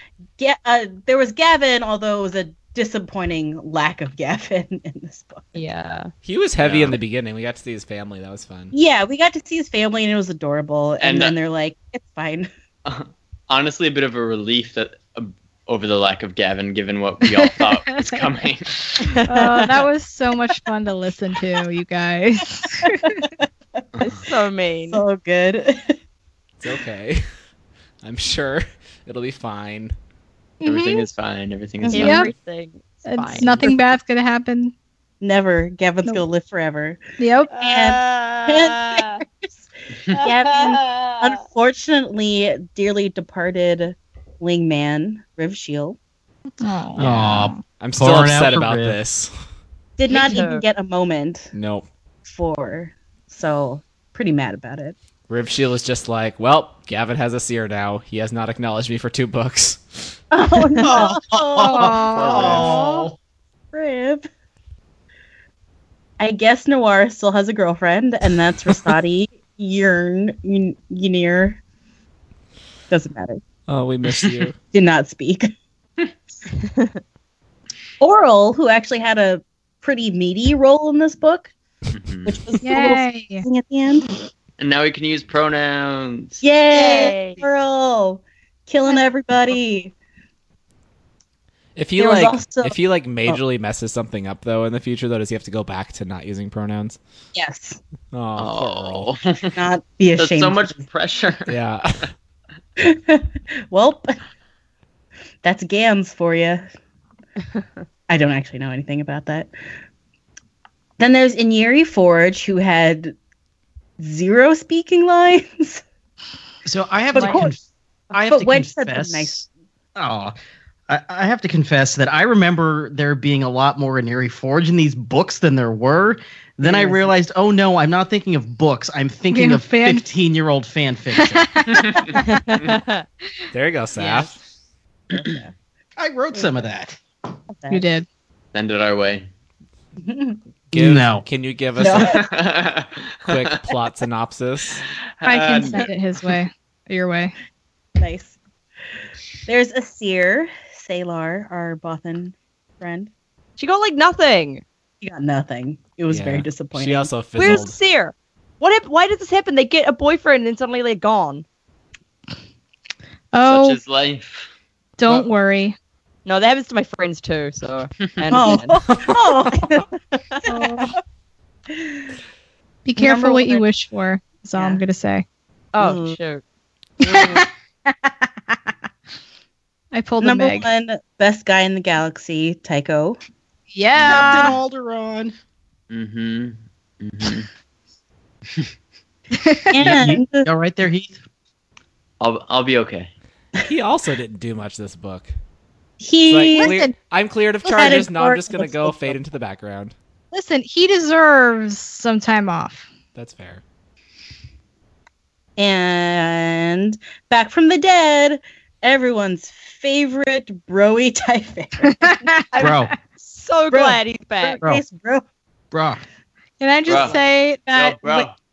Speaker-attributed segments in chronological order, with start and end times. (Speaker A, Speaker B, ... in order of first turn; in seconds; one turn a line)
Speaker A: 0.4-5.6
Speaker B: 5.5-6.1
Speaker C: 6.2-8.7
Speaker D: 6.6-7.0
Speaker A: 8.7-12.5
Speaker D: 11.0-11.3
Speaker D: 12.8-18.8
Speaker E: 17.6-18.0
Speaker B: 19.0-19.7
Speaker E: 19.2-23.2
Speaker A: 22.9-23.4
Speaker A: 24.0-24.2
Speaker B: 24.0-25.0
Speaker A: 24.9-26.0
Speaker C: 26.6-27.2
Speaker C: 28.0-29.9
Speaker E: 30.6-31.1
Speaker D: 30.6-32.3
Speaker A: 31.8-32.1
Speaker B: 31.9-33.6
Speaker E: 31.9-32.3
Speaker E: 33.0-34.7
Speaker A: 35.2-37.0
Speaker E: 37.2-37.5
Speaker A: 37.5-39.5
Speaker B: 37.6-39.2
Speaker B: 40.1-41.4
Speaker A: 40.2-46.0
Speaker E: 46.6-47.6
Speaker F: 47.0-49.0
Speaker C: 47.0-49.3
Speaker A: 50.0-51.5
Speaker B: 50.1-50.6
Speaker C: 51.5-51.9
Speaker A: 52.2-55.0
Speaker C: 55.3-60.1
Speaker A: 60.3-63.0
Speaker F: 60.8-63.1
Speaker E: 61.5-63.0
Speaker A: 63.7-64.3
Speaker A: 66.2-71.6
Speaker A: 72.9-73.4
Speaker C: 73.7-74.5
Speaker D: 74.1-74.3
Speaker A: 74.7-75.5
Speaker B: 76.6-77.0
Speaker A: 78.0-81.5
Speaker D: 81.9-82.4
Speaker A: 82.2-84.1
Speaker E: 82.6-83.4
Speaker D: 84.6-86.4
Speaker A: 86.4-89.9
Speaker B: 86.7-87.4
Speaker C: 91.8-97.0
Speaker A: 92.0-93.4
Speaker A: 97.3-97.8
Speaker C: 98.1-99.1
Speaker D: 98.4-99.5
Speaker A: 99.5-100.8
Speaker D: 100.2-101.6
Speaker C: 101.5-102.1
Speaker A: 102.8-104.2
Speaker A: 105.4-106.7
Speaker A: 108.1-109.5
Speaker A: 111.0-113.1
Speaker A: 114.0-115.8
Speaker F: 116.6-120.3
Speaker A: 117.1-117.5
Speaker B: 117.2-117.4
Speaker A: 118.2-119.4
Speaker F: 120.9-131.6
Speaker A: 126.6-127.1
Speaker E: 129.3-130.1
Speaker E: 131.1-132.4
Speaker D: 131.7-132.7
Speaker B: 132.2-133.0
Speaker C: 133.5-134.3
Speaker B: 133.9-134.3
Speaker A: 135.1-135.5
Speaker F: 136.0-137.0
Speaker A: 137.5-137.8
Speaker E: 137.7-138.1
Speaker D: 138.5-139.3
Speaker A: 140.0-140.4
Speaker C: 140.7-142.2
Speaker F: 140.7-141.2
Speaker A: 141.8-142.2
Speaker D: 141.9-143.7
Speaker C: 143.3-144.8
Speaker D: 145.2-145.9
Speaker E: 145.2-147.3
Speaker A: 148.0-148.3
Speaker A: 149.4-153.1
Speaker B: 153.6-154.6
Speaker A: 155.0-157.1
Speaker C: 156.1-157.8
Speaker B: 157.4-161.4
Speaker E: 163.3-163.8
Speaker D: 163.4-164.5
Speaker E: 165.0-165.8
Speaker B: 166.2-168.8
Speaker A: 168.3-169.9
Speaker B: 170.1-170.4
Speaker A: 170.4-170.9
Speaker E: 170.4-170.9
Speaker A: 171.7-172.1
Speaker E: 172.8-175.2
Speaker A: 172.9-173.7
Speaker A: 174.5-174.8
Speaker B: 175.7-176.4
Speaker A: 175.8-176.2
Speaker A: 177.0-177.4
Speaker E: 177.0-178.1
Speaker E: 179.9-180.7
Speaker A: 180.2-183.2
Speaker E: 183.7-184.6
Speaker F: 184.0-185.3
Speaker D: 185.9-187.5
Speaker E: 189.4-189.9
Speaker A: 189.7-190.5
Speaker F: 189.8-191.2
Speaker D: 192.2-193.1
Speaker C: 193.6-195.3
Speaker A: 196.0-196.8
Speaker C: 196.3-199.9
Speaker E: 196.5-196.9
Speaker A: 197.6-199.2
Speaker E: 200.3-202.9
Speaker C: 203.1-203.6
Speaker A: 205.6-212.3
Speaker E: 211.9-212.8
Speaker B: 212.5-214.6
Speaker F: 212.6-212.9
Speaker A: 213.7-215.2
Speaker F: 215.7-216.0
Speaker E: 216.6-218.3
Speaker D: 216.8-218.3